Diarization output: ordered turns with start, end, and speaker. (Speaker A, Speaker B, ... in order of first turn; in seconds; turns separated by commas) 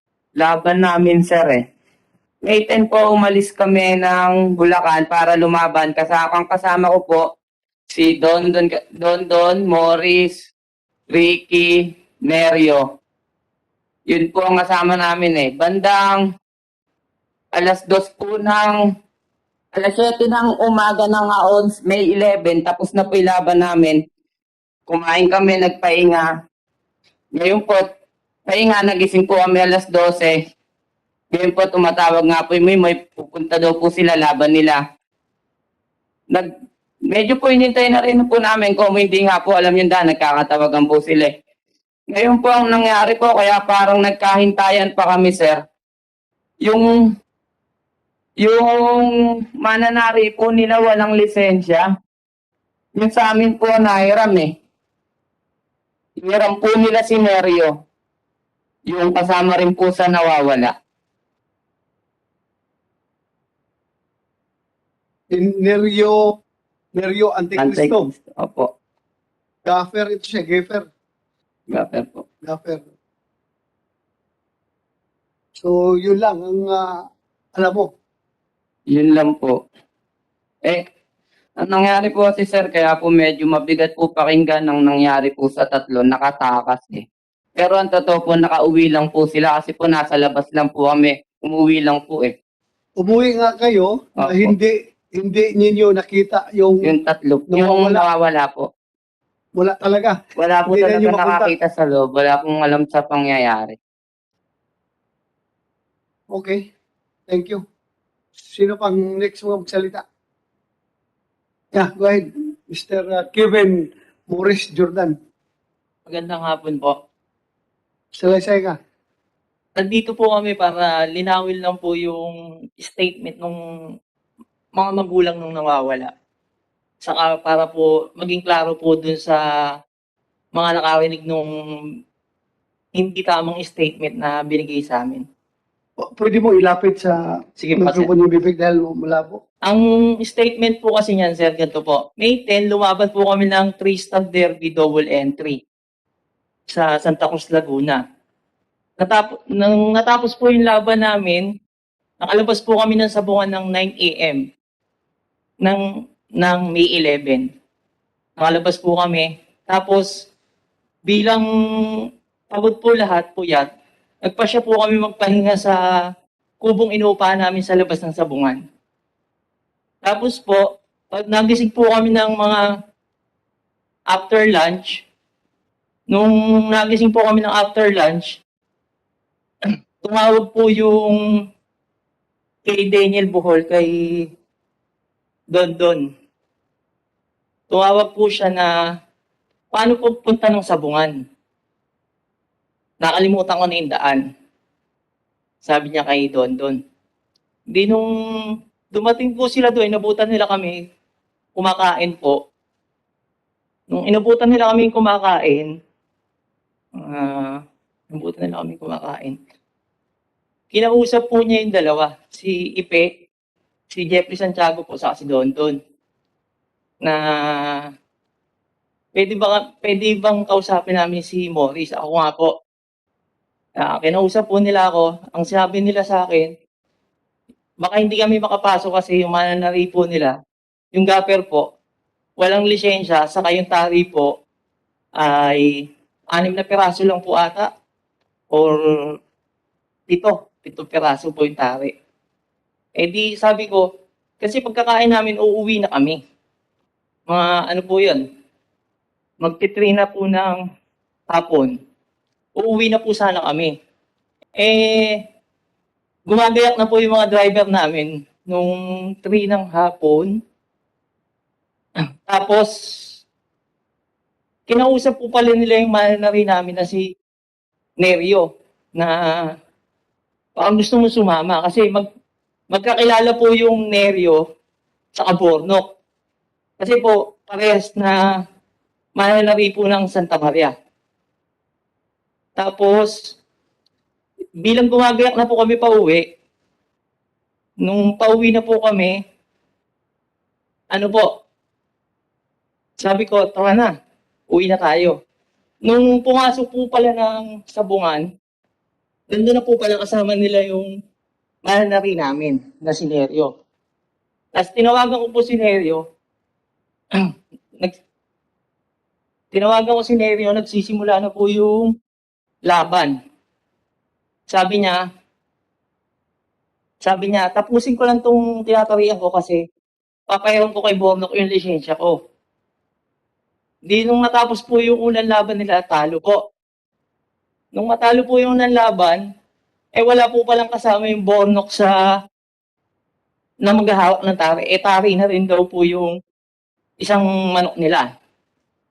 Speaker A: 0.4-1.6, Speaker A: 2.5-7.2, Speaker A: 7.9-10.4, Speaker A: 11.1-12.8, Speaker A: 14.1-16.2, Speaker A: 17.5-18.8, Speaker A: 19.8-24.0, Speaker A: 24.9-26.3, Speaker A: 27.4-27.9, Speaker A: 28.5-30.4, Speaker A: 31.3-34.8, Speaker A: 37.1-41.3, Speaker A: 42.1-45.6, Speaker A: 46.6-46.9, Speaker A: 48.4-51.9, Speaker A: 53.0-54.5, Speaker A: 56.2-57.7, Speaker A: 58.9-60.7, Speaker B: 65.3-66.2, Speaker B: 67.0-68.1, Speaker A: 67.6-68.7, Speaker B: 69.7-70.8, Speaker A: 71.7-72.2, Speaker B: 72.5-72.8, Speaker B: 75.6-76.9, Speaker B: 77.6-77.9, Speaker A: 78.9-79.6, Speaker A: 81.6-87.0, Speaker A: 87.6-92.3, Speaker B: 93.0-96.9, Speaker A: 94.2-94.5, Speaker A: 96.9-98.7, Speaker B: 97.5-98.0, Speaker B: 99.6-101.5, Speaker A: 100.4-103.8, Speaker B: 106.3-106.6, Speaker B: 107.3-107.6, Speaker B: 108.4-110.0, Speaker B: 111.7-115.2, Speaker C: 116.1-117.0, Speaker B: 118.2-118.8, Speaker C: 119.8-123.6, Speaker C: 124.8-126.1, Speaker C: 127.0-129.4, Speaker C: 130.6-131.5, Speaker C: 133.0-135.2, Speaker B: 136.0-139.4, Speaker C: 137.6-138.1, Speaker C: 139.7-145.6, Speaker C: 146.7-148.0, Speaker C: 149.0-151.5, Speaker C: 152.2-154.4, Speaker C: 156.4-157.5, Speaker C: 158.4-160.3, Speaker C: 161.1-161.4, Speaker C: 162.5-163.7, Speaker C: 164.2-165.8, Speaker C: 166.6-168.6, Speaker C: 170.1-172.6, Speaker C: 174.1-175.0, Speaker C: 176.1-178.4, Speaker C: 180.0-181.2, Speaker C: 182.7-184.2, Speaker C: 185.5-186.1, Speaker C: 187.7-188.7, Speaker C: 189.7-191.1, Speaker C: 193.0-194.2, Speaker C: 195.6-196.8, Speaker C: 197.7-198.1, Speaker C: 198.9-200.8, Speaker C: 201.6-202.4, Speaker C: 203.9-205.7, Speaker C: 207.0-207.6, Speaker C: 208.1-209.4, Speaker C: 210.7-213.1, Speaker C: 213.9-215.8, Speaker C: 217.0-217.8, Speaker C: 219.2-222.5, Speaker C: 223.8-226.5, Speaker C: 227.8-230.3, Speaker C: 230.9-231.7, Speaker C: 232.4-234.3, Speaker C: 235.2-235.7, Speaker C: 236.3-237.7, Speaker C: 238.5-238.9, Speaker C: 240.1-241.9, Speaker C: 243.0-243.8, Speaker C: 244.4-246.2, Speaker C: 247.3-248.2, Speaker C: 249.4-250.6, Speaker C: 251.3-251.7, Speaker C: 252.6-253.7, Speaker C: 254.6-255.2, Speaker C: 256.3-260.4, Speaker C: 262.3-262.7, Speaker C: 264.7-267.1, Speaker C: 268.0-268.4, Speaker C: 269.0-269.4, Speaker C: 270.6-272.1, Speaker C: 272.7-274.4, Speaker C: 275.2-275.9, Speaker C: 276.8-278.2, Speaker C: 279.2-280.7, Speaker C: 282.6-283.1, Speaker C: 284.6-286.2, Speaker C: 287.8-289.1, Speaker C: 290.9-291.3, Speaker C: 293.0-293.9, Speaker C: 294.5-295.1, Speaker C: 295.9-298.2, Speaker C: 299.3-300.9, Speaker C: 301.6-303.5, Speaker C: 304.6-306.0, Speaker C: 307.1-307.9, Speaker C: 309.5-311.9, Speaker C: 312.7-313.1, Speaker C: 314.5-315.0, Speaker C: 317.0-319.6, Speaker C: 320.3-322.2, Speaker C: 323.9-326.4, Speaker C: 327.8-329.2, Speaker C: 330.0-331.9, Speaker C: 333.6-336.1, Speaker C: 337.0-338.1